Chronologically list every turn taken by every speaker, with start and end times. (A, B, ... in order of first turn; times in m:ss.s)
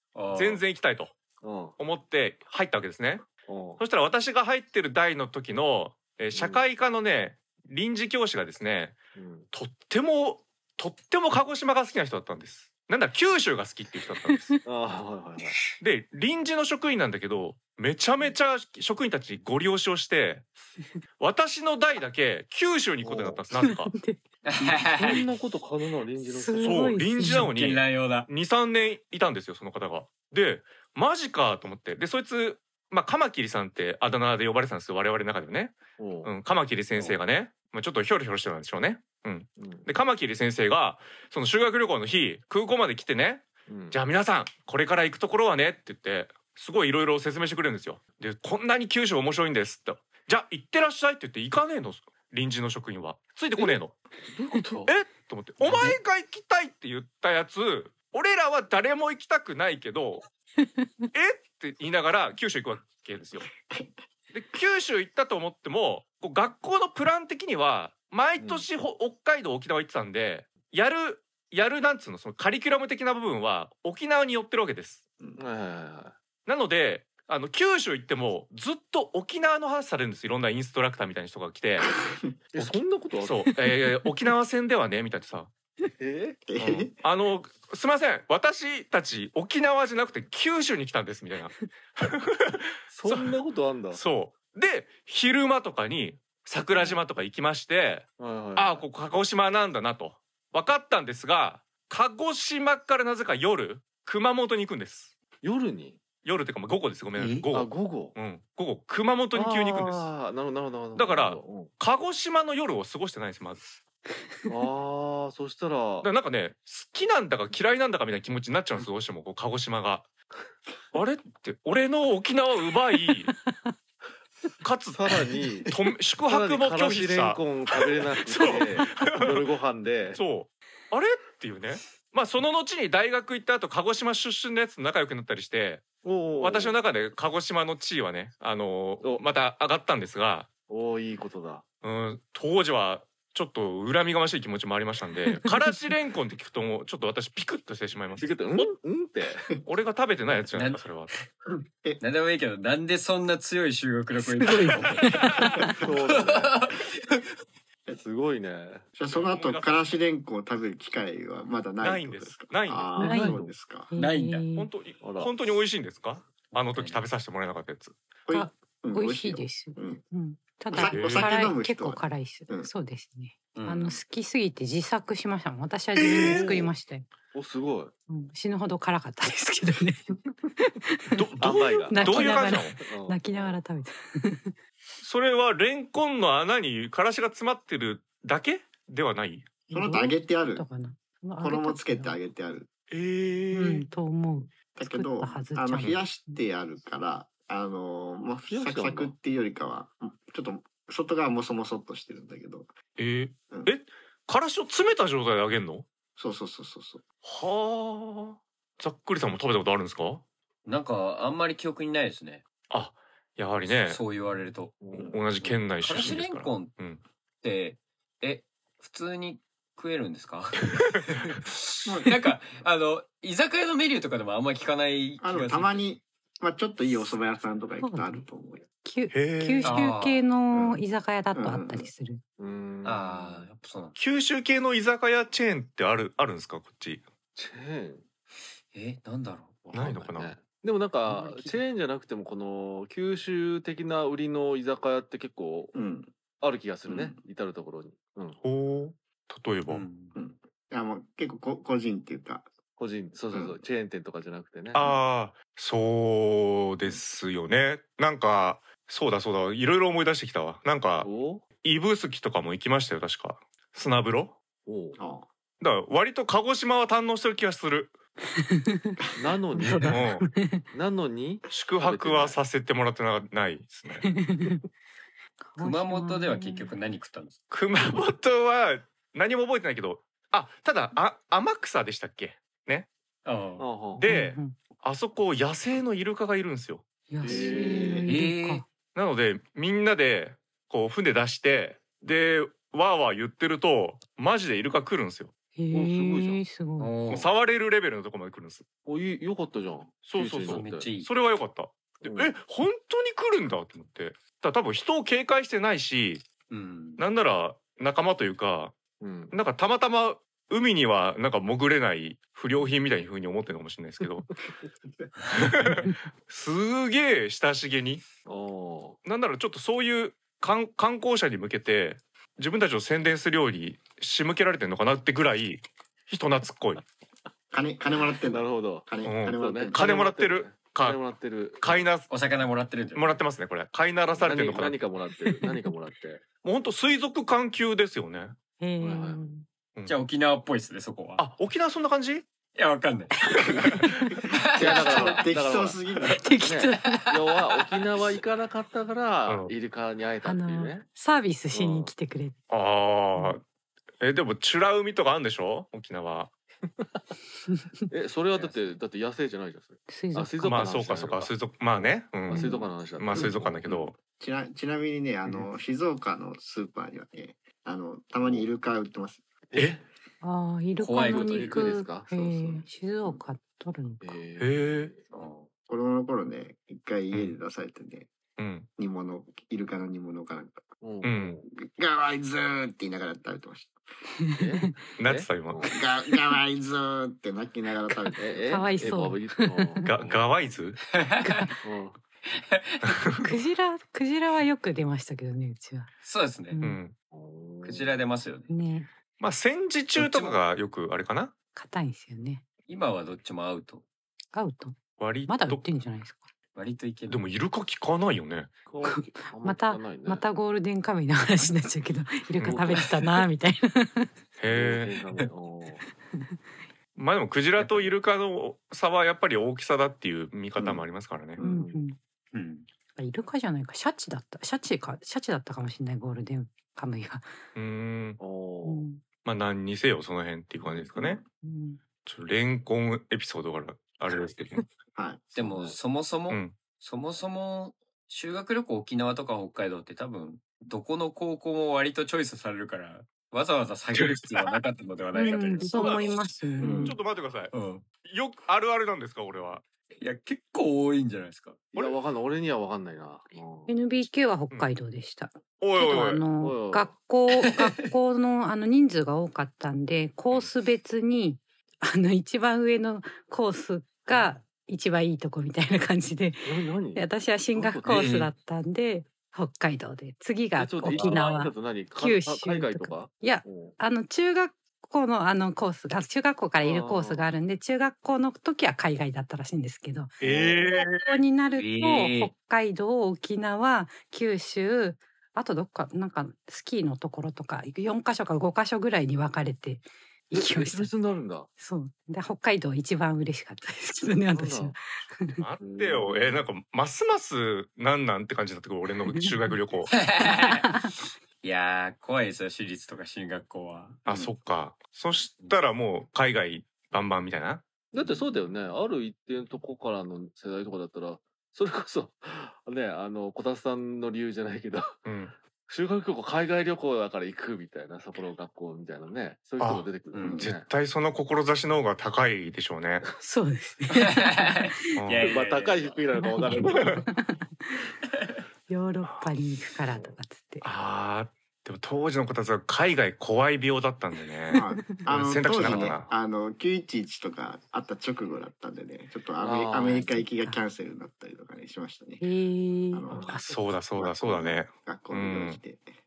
0:00.1-0:00.6 A
0:00.3-0:01.2 B
0:01.4-0:01.8 C
0:01.8-0:09.0 B
0:03.4-0:03.8 C
0:06.3-0:06.6 C
0:09.1-0:09.5 C
0:09.5-0:14.6 B
0:14.3-0:14.5 D
0:14.6-0:15.6 C
0:15.8-0:20.4 B
0:21.2-0:23.9 B
0:23.0-0:23.4 C
0:23.6-0:24.2 D
0:24.4-0:25.2 A
0:24.9-0:27.0 C
0:26.2-0:27.5 D
0:26.6-0:54.0 B
0:27.2-0:28.3 A
0:36.0-0:36.3 C
0:37.0-0:37.2 A
0:39.6-0:39.9 C
0:43.7-0:44.0 C
0:54.3-0:54.9 C
0:54.8-1:00.2 B
0:55.6-0:56.0 A
1:01.1-1:03.5 B
1:03.6-1:03.9 E
1:04.3-1:15.0 B
1:08.4-1:08.7 C
1:15.4-1:16.1 C
1:16.4-1:22.0 B
1:22.0-1:22.2 E
1:22.5-1:23.5 C
1:22.6-1:25.5 B
1:26.0-1:26.4 C
1:26.5-1:26.9 E
1:26.6-1:33.4 B
1:32.9-1:34.0 C
1:33.9-1:45.2 B
1:36.7-1:37.0 C
1:38.2-1:38.8 C
1:45.4-1:46.0 C
1:46.2-1:50.1 B
1:47.2-1:47.4 A
1:47.5-1:48.2 C
1:49.3-1:51.7 C
1:50.9-1:53.7 B
1:54.5-1:56.1 C
1:56.0-2:00.1 B
2:00.9-2:03.3 B
2:04.6-2:09.5 B
2:04.9-2:10.2 C
2:10.1-2:20.5 B
2:16.0-2:16.8 C
2:20.7-2:21.6 C
2:21.8-2:28.7 B
2:28.2-2:29.6 C
2:29.6-2:31.1 B
2:30.5-2:31.2 A
2:32.0-2:35.3 A
2:34.3-2:35.7 D
2:35.8-2:36.6 C
2:36.0-2:37.2 A
2:37.9-2:38.9 C
2:39.0-2:43.9 E
2:39.1-2:39.9 B
2:41.8-2:43.0 B
2:42.9-2:43.5 C
2:43.0-2:43.4 D
2:43.9-2:44.7 D
2:43.9-2:44.5 A
2:44.5-2:48.0 B
2:45.0-2:45.3 C
2:46.7-2:47.0 A
2:48.2-2:50.0 E
2:48.3-2:57.0 D
2:50.7-2:52.7 E
2:50.8-2:51.4 B
2:53.5-2:54.0 A
2:56.0-2:56.6 B
2:56.2-2:56.7 C
2:57.3-2:57.9 C
2:58.1-3:01.2 D
3:01.1-3:02.8 B
3:01.4-3:03.6 C
3:01.9-3:04.5 D
3:05.0-3:09.5 B
3:09.7-3:12.2 D
3:09.7-3:10.6 E
3:11.4-3:12.7 E
3:12.9-3:13.9 B
3:13.5-3:16.4 D
3:14.7-3:22.7 E
3:15.8-3:16.1 B
3:18.5-3:19.1 C
3:23.0-3:25.9 B
3:26.2-3:27.0 E
3:27.2-3:30.2 B
3:30.6-3:32.4 A
3:32.7-3:34.0 B
3:33.6-3:34.8 A
3:34.8-3:35.2 C
3:35.0-3:37.0 B
3:35.4-3:36.8 A
3:37.4-3:45.8 A
3:40.8-3:41.4 B
3:41.8-3:42.1 E
3:45.2-3:48.6 E
3:47.8-3:48.2 D
3:48.8-3:52.2 D
3:49.1-3:49.9 B
3:49.6-3:50.2 A
3:50.5-3:50.8 E
3:51.3-3:51.9 E
3:52.4-3:53.5 C
3:52.8-3:54.0 A
3:54.0-3:57.0 B
3:57.4-3:58.0 C
3:58.7-3:59.7 A
3:59.7-4:05.7 C
3:59.7-4:00.3 B
4:01.1-4:01.6 A
4:05.7-4:06.1 E
4:06.4-4:08.4 C
4:06.9-4:07.2 E
4:08.4-4:09.8 B
4:09.7-4:10.1 A
4:10.1-4:12.5 E
4:12.8-4:15.0 C
4:13.3-4:13.6 E
4:14.7-4:24.4 B
4:21.0-4:21.5 C
4:24.6-4:25.0 C
4:25.0-4:25.2 E
4:25.6-4:28.0 B
4:28.3-4:29.0 D
4:29.2-4:30.0 C
4:29.5-4:30.6 D
4:29.9-4:30.3 B
4:30.7-4:32.4 C
4:31.5-4:34.1 B
4:34.0-4:34.6 D
4:35.4-4:36.7 D
4:35.6-4:37.4 A
4:37.5-4:42.9 B
4:43.2-4:43.7 A
4:43.6-4:44.0 C
4:43.9-4:46.8 B
4:44.0-4:44.6 D
4:47.1-4:48.6 D
4:47.2-4:48.1 C
4:47.4-4:48.1 E
4:48.1-4:48.6 A
4:48.9-4:55.3 B
4:55.6-4:56.9 D
4:55.7-4:56.4 C
4:56.8-4:57.3 A
4:57.1-4:58.6 B
4:58.8-5:00.9 C
5:00.0-5:06.2 B
5:00.4-5:01.1 A
5:02.0-5:02.4 C
5:06.5-5:07.0 A
5:07.0-5:08.8 B
5:09.0-5:09.3 C
5:09.3-5:14.3 B
5:15.3-5:18.1 B
5:18.2-5:19.0 C
5:19.0-5:26.8 B
5:27.5-5:29.9 E
5:28.3-5:31.9 C
5:29.0-5:31.0 B
5:31.6-5:32.1 B
5:32.1-5:33.2 A
5:32.9-5:34.8 B
5:34.1-5:36.2 C
5:36.4-5:38.4 B
5:38.6-5:39.4 D
5:38.8-5:39.2 C
5:39.9-5:41.2 A
5:41.2-5:42.3 B
5:42.5-5:43.7 A
5:43.5-5:44.2 B
5:44.3-5:45.2 A
5:44.6-5:45.8 C
5:44.6-5:46.2 E
5:46.1-5:47.2 D
5:46.4-5:50.9 C
5:46.8-5:47.7 A
5:49.3-5:49.5 B
5:50.2-5:52.4 D
5:51.5-5:51.9 C
5:52.5-5:53.4 B
5:54.0-5:56.3 B
5:56.7-5:57.0 C
5:57.5-5:57.8 D
5:57.9-6:03.9 C
5:59.9-6:00.8 D
6:00.4-6:03.9 B
6:02.3-6:03.3 D
6:04.2-6:09.2 E
6:08.2-6:08.5 C
6:09.5-6:09.8 C
6:10.2-6:14.2 D
6:10.8-6:11.7 A
6:11.0-6:13.2 C
6:14.0-6:15.0 C
6:14.4-6:14.9 B
6:15.1-6:15.5 A
6:15.7-6:18.1 E
6:18.4-6:18.7 B
6:18.8-6:20.6 E
6:20.8-6:21.4 C
6:21.0-6:21.4 B
6:21.4-6:23.7 E
6:24.3-6:24.7 D
6:24.3-6:25.8 C
6:25.0-6:25.6 B
6:25.7-6:28.5 E
6:28.2-6:30.4 C
6:28.4-6:29.9 D
6:29.8-6:30.8 B
6:30.9-6:31.5 A
6:31.2-6:31.5 D
6:31.6-6:32.0 C
6:32.2-6:33.0 A
6:32.9-6:33.3 B
6:33.2-6:35.9 D
6:36.0-6:36.6 A
6:36.5-6:36.8 D
6:36.6-6:37.0 B
6:37.1-6:38.0 C
6:37.6-6:38.5 A
6:38.5-6:38.9 D
6:39.2-6:41.3 B
6:40.0-6:40.4 A
6:41.5-6:42.4 D
6:42.7-6:43.8 A
6:44.3-6:46.3 D
6:45.0-6:45.6 B
6:46.5-6:47.3 A
6:47.1-6:48.5 B
6:48.7-6:50.2 C
6:48.8-6:54.1 D
6:52.4-6:52.7 B
6:52.5-6:52.9 C
6:54.4-6:55.0 B
6:54.5-6:55.8 C
6:56.1-6:56.4 D
6:57.0-7:01.4 B
6:57.6-6:57.9 A
7:01.4-7:01.8 C
7:01.4-7:02.0 D
7:02.3-7:02.7 A
7:03.0-7:07.3 D
7:07.5-7:08.2 B
7:08.2-7:08.8 C
7:08.6-7:09.0 D
7:09.2-7:11.2 B
7:11.4-7:11.8 D
7:12.0-7:14.6 B
7:14.9-7:15.2 E
7:15.3-7:26.1 A
7:15.4-7:15.8 C
7:16.3-7:16.6 B
7:23.9-7:24.5 B
7:25.1-7:27.0 D
7:25.6-7:27.5 B
7:26.6-7:27.0 E
7:27.5-7:27.8 A
7:28.0-7:29.6 B
7:30.0-7:31.6 A
7:31.7-7:32.0 B
7:31.7-7:33.8 C
7:33.7-8:00.2 D
7:35.6-7:36.3 B
7:36.4-7:36.9 C
7:37.3-7:37.8 A
7:46.4-7:48.1 C
7:47.8-7:48.3 A
7:50.6-7:53.8 C
7:50.9-7:51.2 A
7:56.6-7:57.3 C
8:00.2-8:01.2 B
8:00.2-8:00.7 C
8:00.7-8:10.9 D
8:01.6-8:02.3 A
8:10.3-8:11.5 C
8:11.6-8:15.4 D
8:14.3-8:14.8 C
8:15.4-8:20.0 B
8:15.6-8:16.5 C
8:19.9-8:20.8 A
8:20.2-8:20.9 D
8:21.4-8:24.0 A
8:24.0-8:27.6 B
8:27.9-8:35.0 C
8:35.0-8:35.3 B
8:35.6-8:40.6 C
8:39.6-8:43.0 B
8:40.1-8:40.4 A
8:43.2-8:45.0 D
8:43.9-8:46.0 A
8:45.0-8:45.4 B
8:45.2-8:47.0 C
8:46.1-8:47.9 D
8:46.5-8:47.0 B
8:48.7-8:50.7 D
8:50.6-8:56.1 B
8:54.5-8:54.8 D
8:54.5-9:02.2 E
8:55.6-8:55.9 C
8:59.4-9:00.2 C
9:02.2-9:03.6 D
9:02.9-9:05.9 E
9:03.1-9:03.4 C
9:03.4-9:05.6 B